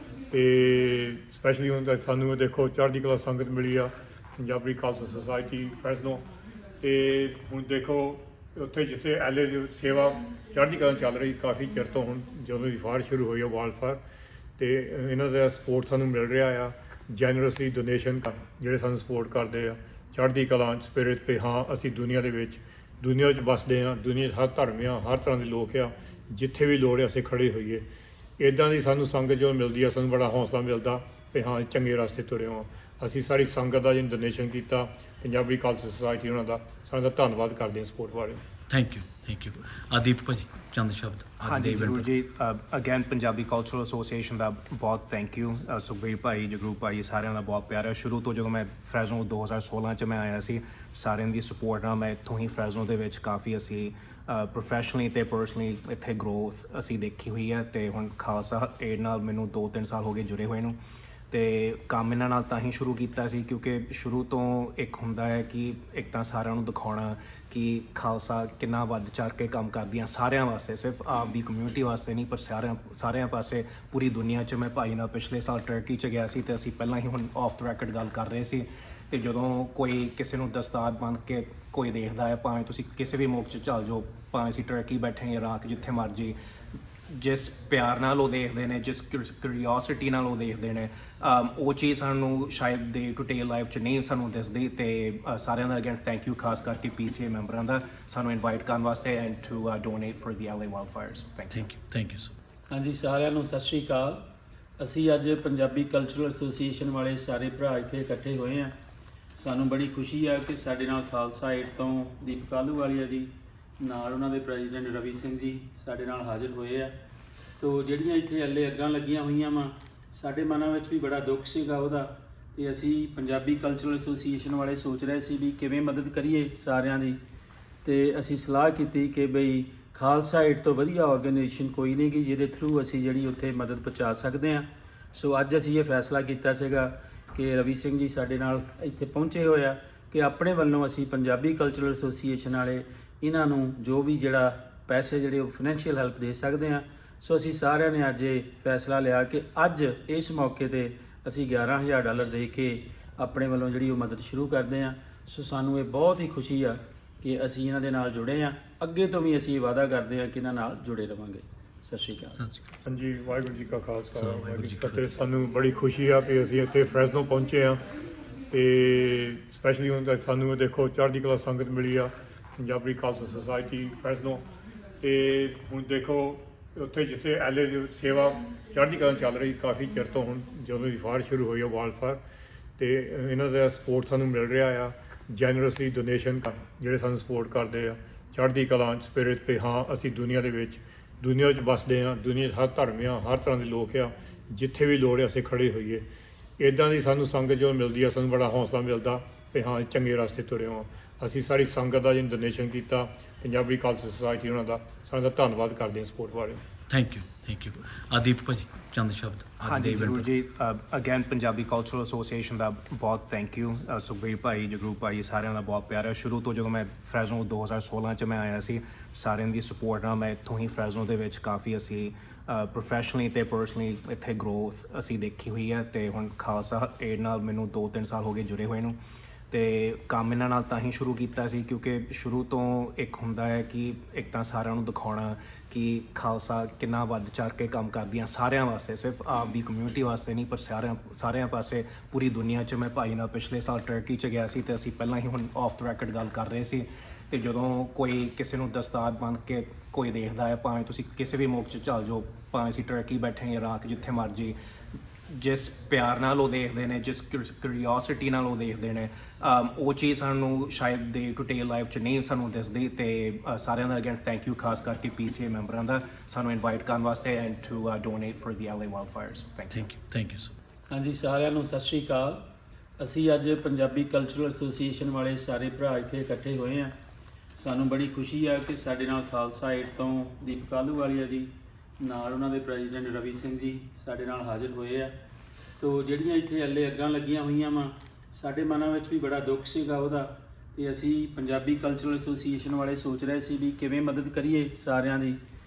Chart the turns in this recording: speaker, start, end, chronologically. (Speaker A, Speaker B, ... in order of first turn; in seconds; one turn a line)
Speaker A: 0.3-6.2
Speaker A: 6.8-14.0
Speaker A: 14.6-27.8
Speaker A: 28.4-38.4
Speaker B: 38.7-42.1
Speaker C: 41.4-60.8
Speaker C: 61.3-86.3
Speaker C: 87.1-101.7
Speaker B: 101.5-102.3
Speaker D: 102.7-104.2
Speaker D: 104.8-108.7
Speaker D: 109.3-117.0
Speaker D: 117.6-127.2
Speaker D: 127.8-162.4
Speaker B: 162.4-162.8
Speaker A: 162.8-167.8
Speaker B: 164.1-165.1
Speaker A: 168.5-174.4
Speaker A: 175.0-182.2
Speaker A: 182.8-196.0
Speaker A: 196.6-206.6
Speaker B: 206.9-210.3
Speaker C: 209.6-229.0
Speaker C: 229.5-254.6
Speaker C: 255.3-269.9
Speaker B: 269.7-270.5
Speaker D: 270.9-272.4
Speaker D: 273.0-276.9
Speaker D: 277.6-285.2
Speaker D: 285.8-295.4